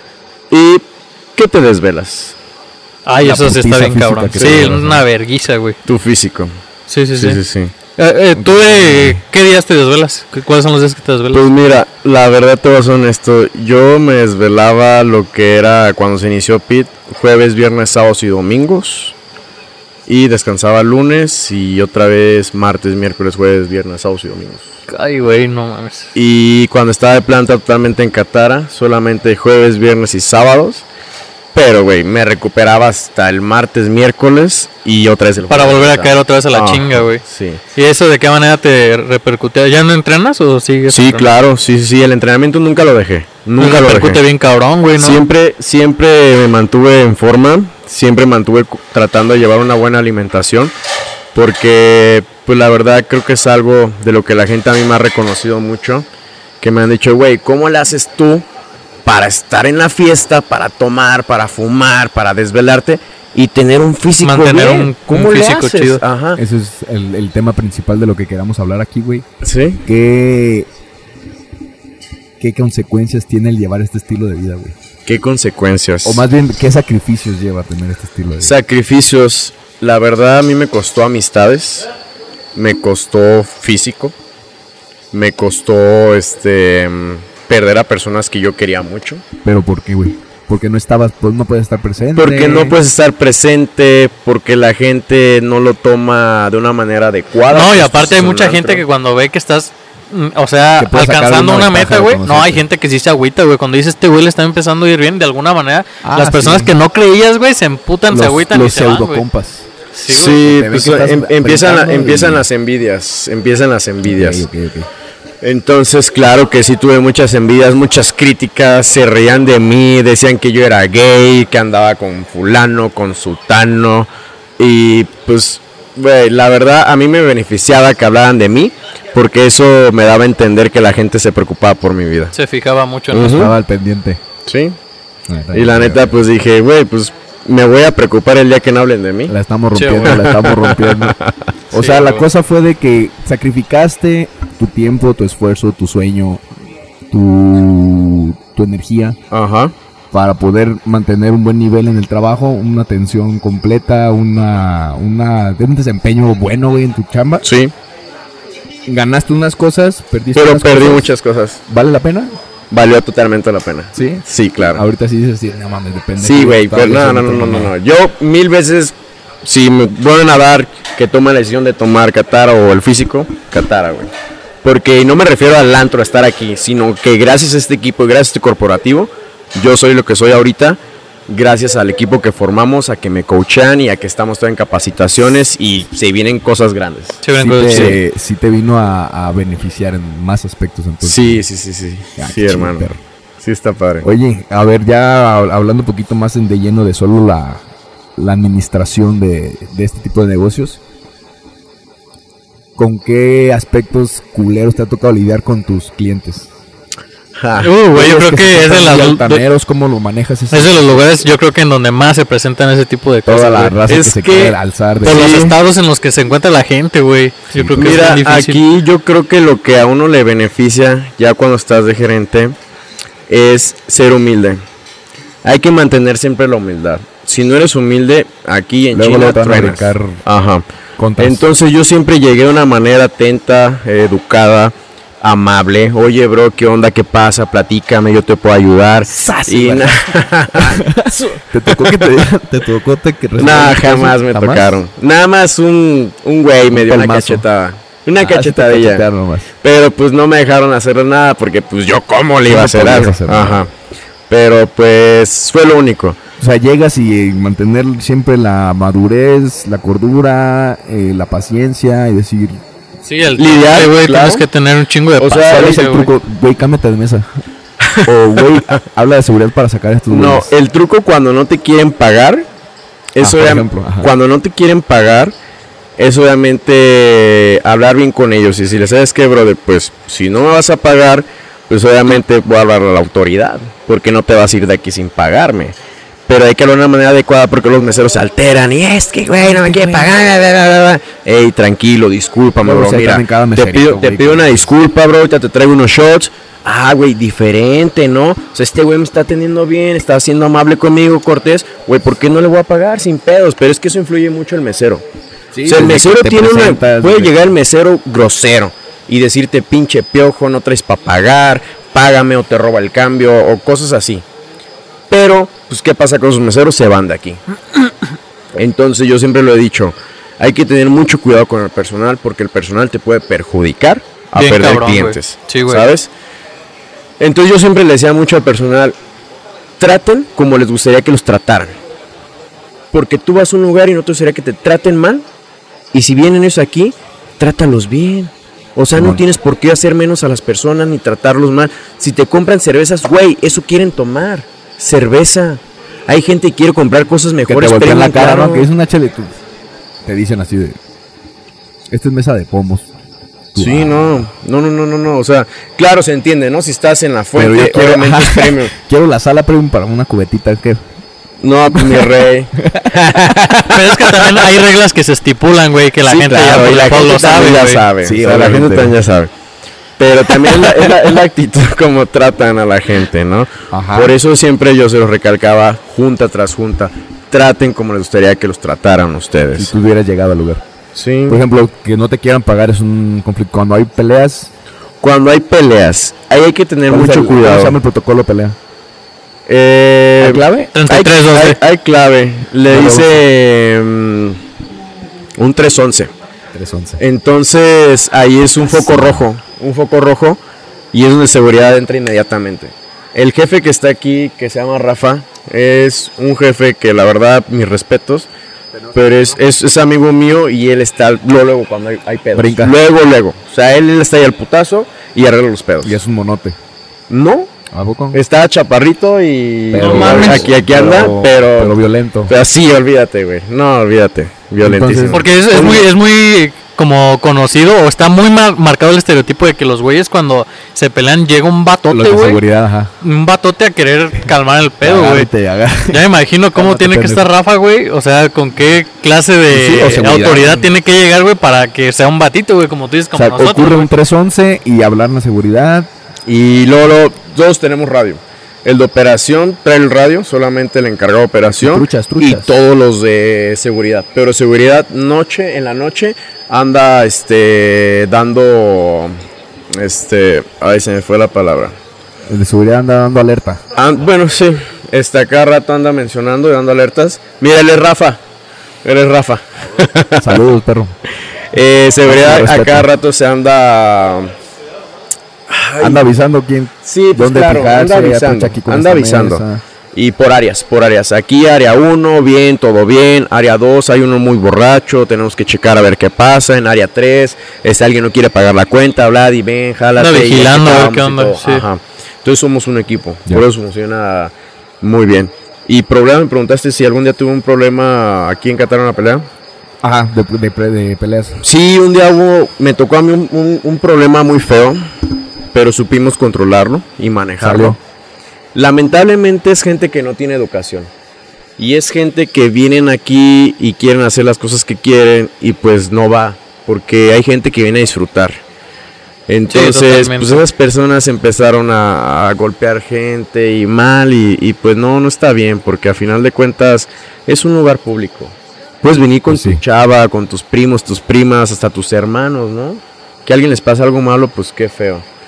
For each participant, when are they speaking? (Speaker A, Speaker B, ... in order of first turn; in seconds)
Speaker A: 0.5-2.4, 4.4-4.7, 5.9-6.5, 7.1-7.7, 11.3-19.2, 20.1-24.7, 26.1-30.9, 31.5-37.6, 40.9-44.2, 45.0-50.7, 51.3-56.1, 56.6-58.5, 59.0-66.4, 69.4-69.8, 75.1-76.2, 78.4-81.9, 82.5-84.2, 85.1-89.2, 92.2-98.8, 110.1-114.5, 115.4-132.3, 133.1-133.5, 134.5-134.8, 135.5-139.3, 140.0-141.4, 149.3-149.7, 157.4-157.7, 160.3-161.6, 162.7-164.8, 166.2-174.1, 174.6-188.0, 191.0-192.9, 193.4-194.1, 207.4-207.8, 215.0-215.6, 217.8-222.6, 223.3-224.6, 225.4-230.7, 231.2-242.3, 243.4-249.1, 249.6-253.7, 254.3-256.2, 263.4-264.5, 265.2-265.9, 267.8-268.6, 270.1-272.5, 273.2-275.3, 276.0-285.8, 286.3-305.1, 305.6-314.2, 315.1-317.4, 318.5-326.1, 327.2-329.0, 329.8-331.8, 332.9-335.3, 335.9-348.7, 353.6-358.7, 361.4-364.5, 366.0-369.3, 370.0-379.7, 380.9-381.4, 385.0-387.8, 389.5-394.4, 395.4-396.1, 397.0-400.4, 400.9-408.3, 408.9-416.0, 417.1-417.5, 418.1-425.9, 446.3-459.1, 459.7-461.7, 463.7-468.2, 468.8-470.4, 471.5-474.4, 475.5-476.1, 476.8-499.3, 501.4-504.8, 505.5-507.8, 508.5-510.9, 511.6-518.4, 519.3-535.0
Speaker B: 3.1-5.8, 6.9-7.4, 8.0-11.5, 24.9-26.1, 35.5-37.2, 37.8-41.3, 43.6-45.2, 64.2-66.0, 97.5-109.2, 109.9-110.4, 132.3-133.5, 139.8-140.2, 141.8-142.2, 187.2-188.0, 207.6-209.4, 210.5-218.6, 263.0-266.1, 324.3-325.9, 363.7-367.9, 390.7-391.6, 419.8-420.5, 425.1-432.4, 433.0-435.3, 435.9-444.0, 490.0-491.6, 519.5-520.4
Speaker C: 3.2-5.0, 8.3-9.2, 66.4-69.3, 69.8-70.7, 72.4-74.8, 76.0-78.5, 89.4-92.8, 100.8-102.6, 106.0-106.7, 108.1-109.7, 110.4-112.5, 114.0-114.9, 133.2-134.2, 135.3-136.2, 139.3-141.2, 141.7-146.4, 147.1-149.2, 150.1-157.5, 158.9-161.1, 161.7-162.3, 163.9-167.7, 187.4-191.4, 192.2-193.0, 194.0-197.6, 198.2-200.8, 202.8-206.5, 207.9-211.2, 213.3-215.4, 217.5-217.9, 228.9-230.2, 231.0-231.4, 239.1-239.9, 240.6-244.8, 246.7-247.4, 248.2-249.5, 252.5-253.7, 256.4-262.6, 265.4-267.4, 268.0-270.5, 273.2-274.1, 292.6-294.6, 305.6-307.5, 338.9-339.2, 347.5-349.3, 350.1-350.8, 351.9-352.9, 353.5-354.2, 357.4-360.8, 362.6-362.9, 368.0-369.0, 370.6-370.8, 373.7-374.1, 379.6-380.6, 381.3-384.5, 386.9-388.6, 390.2-390.7, 392.7-393.2, 396.5-397.0, 412.4-412.8, 415.8-416.6, 417.7-418.2, 419.7-422.4, 424.6-425.2, 431.9-432.9, 434.8-437.3, 439.5-440.7, 443.1-445.9, 451.6-452.5, 462.3-463.6, 470.2-470.9, 472.1-472.9, 475.8-479.6, 499.8-501.4, 507.4-507.8, 529.3-529.6